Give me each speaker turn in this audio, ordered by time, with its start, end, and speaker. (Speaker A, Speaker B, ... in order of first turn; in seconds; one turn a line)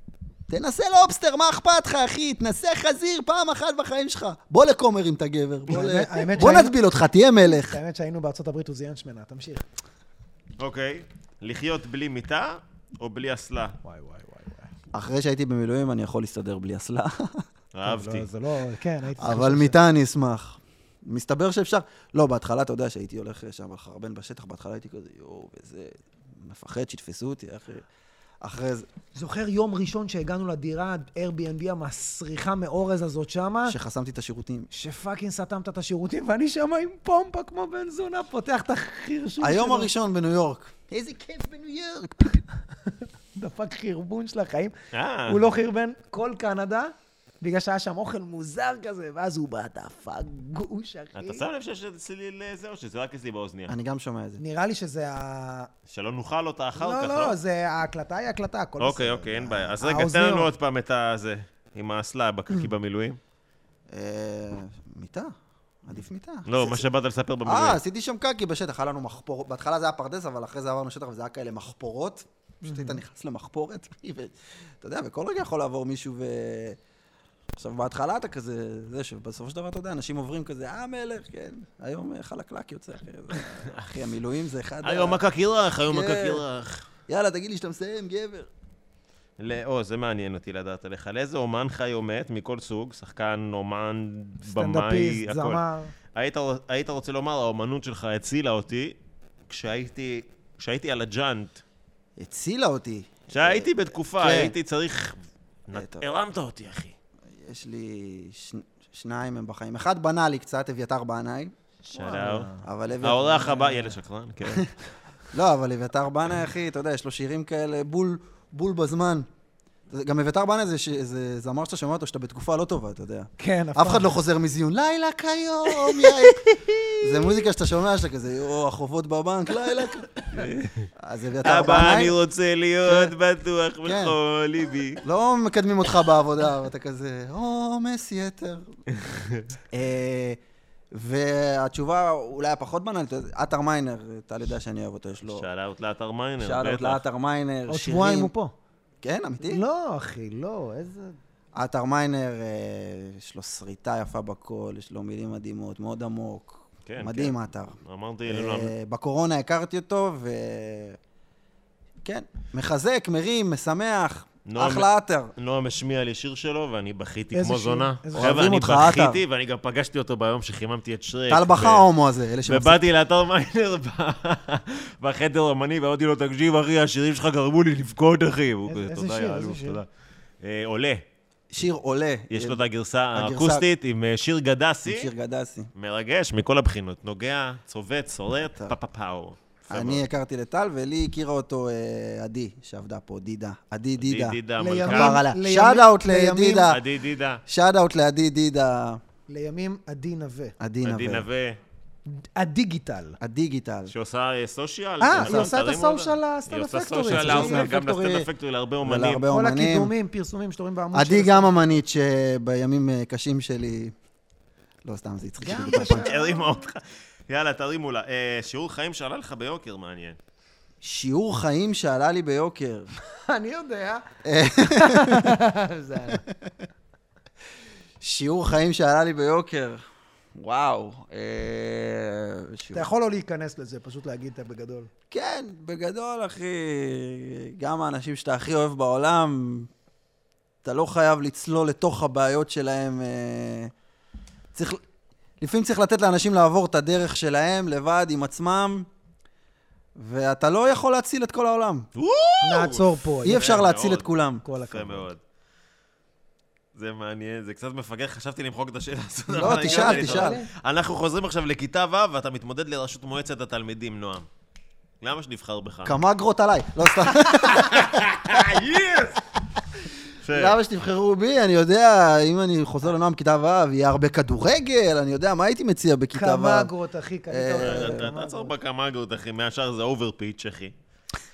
Speaker A: 0.5-7.8
Speaker B: 5.7-6.8
Speaker B: 7.4-9.7
Speaker C: 10.6-13.8
Speaker B: 13.8-14.7
Speaker A: 14.9-17.5
Speaker C: 17.7-18.3
Speaker B: 17.8-19.8
Speaker A: 19.2-27.9
Speaker A: 28.4-28.9
Speaker B: 29.1-33.8
Speaker A: 33.7-34.7
Speaker B: 34.7-39.9
Speaker A: 39.4-42.4
Speaker B: 43.4-44.8
Speaker C: 44.9-45.5
Speaker B: 45.3-51.5
Speaker C: 51.2-53.7
Speaker A: 53.7-54.4
Speaker B: 54.4-55.7
Speaker C: 55.9-57.4
Speaker B: 56.8-60.5
Speaker C: 58.8-63.2
Speaker A: 63.9-66.9
Speaker C: 66.5-67.8
Speaker A: 67.5-76.8
Speaker B: 72.7-73.0
Speaker A: 77.6-85.2
Speaker C: 84.8-86.9
Speaker A: 85.9-86.5
Speaker A: 87.1-88.5
Speaker C: 89.4-95.6
Speaker B: 94.4-95.9
Speaker C: 96.1-99.0
Speaker C: 99.5-101.6
Speaker A: 102.2-104.5
Speaker C: 103.3-107.0
Speaker A: 105.7-106.1
Speaker A: 107.3-111.5
Speaker B: 111.8-112.7
Speaker C: 111.9-112.5
Speaker A: 112.6-113.7
Speaker C: 113.0-114.7
Speaker B: 113.5-114.0
Speaker A: 115.3-119.3
Speaker A: 119.9-126.5
Speaker B: 123.4-124.2
Speaker C: 125.8-126.9
Speaker A: 127.0-130.2
Speaker C: 130.3-130.9
Speaker A: 131.0-132.2
Speaker C: 131.4-135.0
Speaker A: 132.8-133.1
Speaker A: 133.8-134.2
Speaker A: 135.0-138.8
Speaker C: 138.9-139.5
Speaker A: 139.7-140.4
Speaker A: 140.9-145.5
Speaker C: 145.3-147.0
Speaker A: 146.4-148.3
Speaker B: 147.7-148.5
Speaker A: 149.0-149.6
Speaker B: 149.4-151.2
Speaker A: 151.6-161.0
Speaker C: 156.9-158.7
Speaker A: 162.0-165.3
Speaker C: 164.5-171.8
Speaker B: 167.3-168.6
Speaker A: 168.2-169.2
Speaker A: 171.3-172.8
Speaker C: 172.4-179.9
Speaker B: 178.7-179.8
Speaker C: 180.4-181.0
Speaker A: 181.5-182.6
Speaker C: 182.3-185.1
Speaker A: 183.1-183.7
Speaker A: 184.8-185.7
Speaker C: 185.8-190.0
Speaker A: 189.7-196.8
Speaker C: 194.0-195.2
Speaker B: 194.6-196.7
Speaker C: 196.6-197.4
Speaker A: 197.5-199.0
Speaker B: 199.3-200.5
Speaker A: 200.6-201.3
Speaker C: 200.8-201.6
Speaker B: 202.1-203.2
Speaker A: 203.2-203.9
Speaker C: 203.9-209.3
Speaker B: 205.0-207.7
Speaker A: 205.2-205.6
Speaker A: 207.0-208.3
Speaker A: 208.8-209.9
Speaker B: 209.3-211.8
Speaker A: 210.9-213.9
Speaker A: 214.8-216.1
Speaker B: 215.4-216.6
Speaker C: 215.5-220.2
Speaker A: 220.8-222.9
Speaker B: 223.2-224.1
Speaker A: 224.2-225.4
Speaker B: 224.6-226.2
Speaker A: 226.1-226.5
Speaker A: 228.0-229.8
Speaker A: 230.3-232.9
Speaker B: 232.7-234.9
Speaker A: 235.1-239.7
Speaker A: 240.6-243.7
Speaker A: 244.5-244.8
Speaker A: 245.4-248.9
Speaker A: 250.0-251.9
Speaker C: 252.0-255.2
Speaker B: 252.4-253.7
Speaker A: 253.2-254.4
Speaker B: 254.4-255.1
Speaker C: 256.8-264.3
Speaker A: 259.3-260.4
Speaker B: 259.3-260.5
Speaker C: 265.0-266.0
Speaker A: 265.9-268.6
Speaker C: 267.1-269.1
Speaker C: 270.2-270.6
Speaker A: 270.3-276.7
Speaker B: 276.1-278.6
Speaker A: 277.3-278.1
Speaker C: 277.6-280.7